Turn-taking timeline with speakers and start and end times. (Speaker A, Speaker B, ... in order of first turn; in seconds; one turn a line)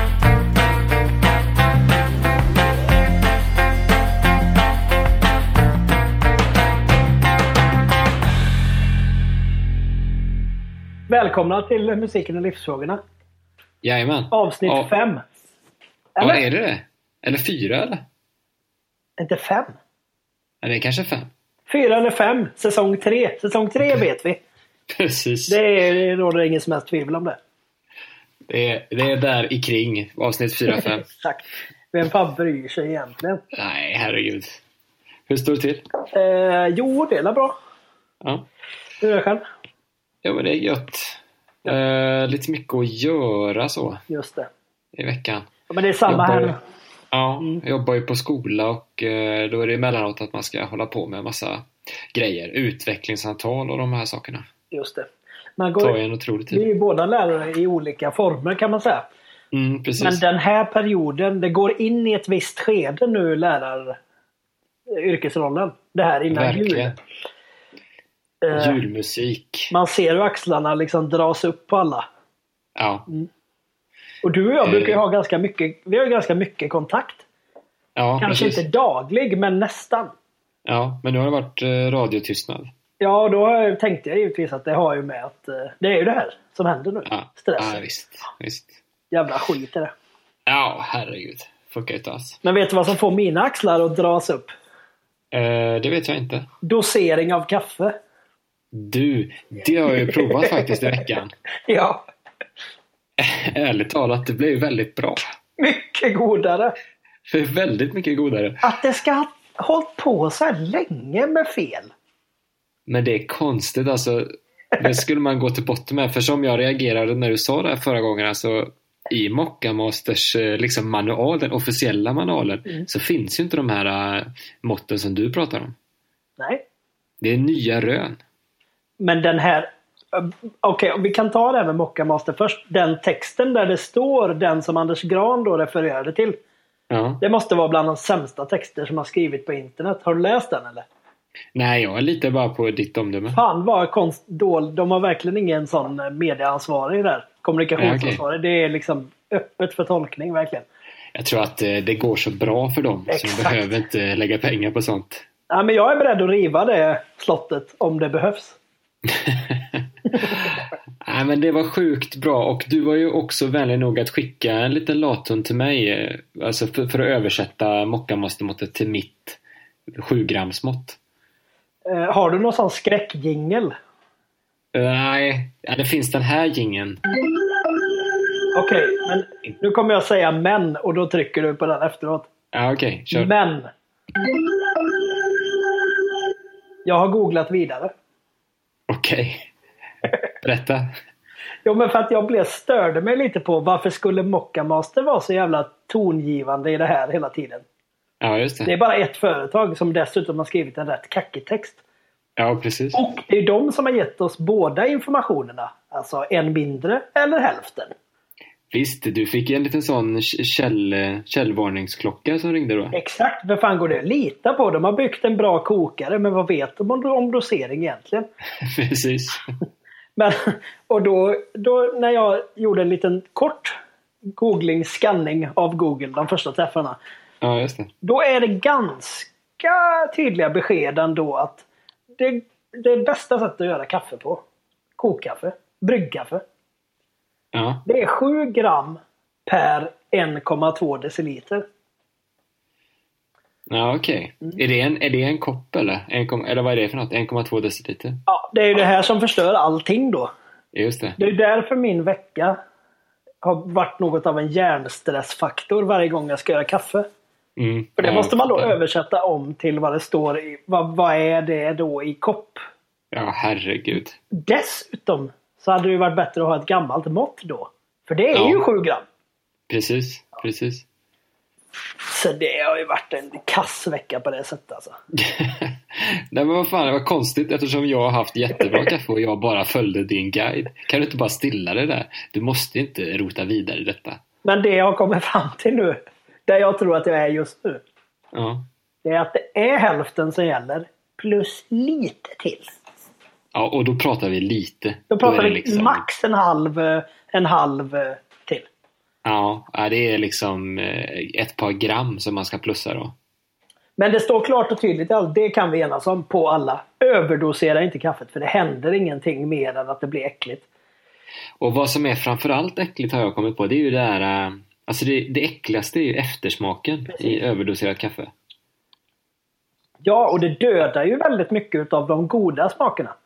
Speaker A: 11.1-13.0
Speaker B: 13.8-14.9
Speaker A: 14.3-15.2
Speaker A: 16.2-16.4
Speaker B: 16.2-18.0
Speaker A: 19.2-19.8
Speaker B: 20.6-21.3
Speaker A: 21.7-24.4
Speaker B: 24.9-25.6
Speaker A: 25.5-27.4
Speaker B: 28.5-31.1
Speaker A: 30.7-33.4
Speaker B: 33.5-34.6
Speaker B: 35.3-35.8
Speaker A: 36.1-37.5
Speaker A: 39.0-39.4
Speaker B: 40.2-44.0
Speaker A: 44.1-44.5
Speaker B: 45.0-45.5
Speaker A: 45.7-46.6
Speaker B: 46.1-46.5
Speaker B: 47.1-54.5
Speaker A: 54.7-55.9
Speaker B: 55.8-56.7
Speaker A: 56.5-59.1
Speaker B: 59.5-60.2
Speaker A: 60.0-64.0
Speaker A: 64.9-66.9
Speaker B: 66.3-66.9
Speaker A: 68.4-68.8
Speaker B: 68.5-69.7
Speaker A: 69.7-72.0
Speaker B: 72.8-73.0
Speaker A: 74.2-77.2
Speaker B: 74.6-75.0
Speaker B: 78.0-78.6
Speaker A: 78.2-80.1
Speaker B: 80.7-82.7
Speaker A: 83.0-87.8
Speaker B: 87.0-88.8
Speaker A: 89.1-89.9
Speaker B: 90.5-92.4
Speaker A: 92.4-94.5
Speaker B: 95.3-96.5
Speaker A: 96.6-97.9
Speaker B: 98.7-101.3
Speaker A: 99.9-100.7
Speaker A: 101.7-102.0
Speaker B: 103.2-105.2
Speaker A: 105.6-106.7
Speaker B: 107.3-108.7
Speaker A: 108.6-111.9
Speaker B: 112.9-125.7
Speaker B: 127.2-128.2
Speaker A: 129.0-136.4
Speaker B: 136.9-137.2
Speaker A: 137.2-140.8
Speaker B: 141.5-143.4
Speaker A: 143.3-150.7
Speaker B: 147.8-148.2
Speaker B: 151.1-155.2
Speaker A: 153.1-153.7
Speaker A: 155.5-158.6
Speaker B: 159.1-169.4
Speaker B: 169.9-171.0
Speaker A: 171.8-173.7
Speaker B: 174.7-177.0
Speaker A: 178.5-182.3
Speaker B: 182.5-183.3
Speaker A: 183.1-183.7
Speaker A: 186.8-187.9
Speaker B: 188.9-189.5
Speaker B: 190.4-190.9
Speaker A: 191.6-197.6
Speaker B: 198.2-198.7
Speaker A: 198.6-201.8
Speaker B: 202.4-203.0
Speaker A: 202.9-207.9
Speaker B: 208.7-212.9
Speaker A: 212.9-218.3
Speaker B: 218.6-219.5
Speaker A: 220.2-223.8
Speaker A: 224.4-227.0
Speaker B: 227.4-227.9
Speaker A: 228.0-231.6
Speaker A: 232.2-234.4
Speaker A: 235.0-236.4
Speaker B: 237.5-237.8
Speaker A: 237.8-241.6
Speaker B: 243.7-248.2
Speaker A: 248.3-250.3
Speaker B: 250.7-251.2
Speaker A: 251.2-252.6
Speaker A: 253.4-257.1
Speaker B: 257.6-258.8
Speaker A: 258.0-262.6
Speaker B: 263.1-264.2
Speaker A: 264.3-269.0
Speaker B: 268.3-268.6
Speaker B: 269.7-270.8
Speaker A: 272.1-274.9
Speaker B: 275.2-284.2
Speaker A: 284.4-287.8
Speaker B: 288.3-288.7
Speaker A: 289.0-292.7
Speaker B: 293.5-296.0
Speaker A: 295.1-298.6
Speaker B: 299.2-303.1
Speaker A: 304.0-310.6
Speaker B: 311.6-318.3
Speaker A: 317.1-317.4
Speaker A: 320.0-323.1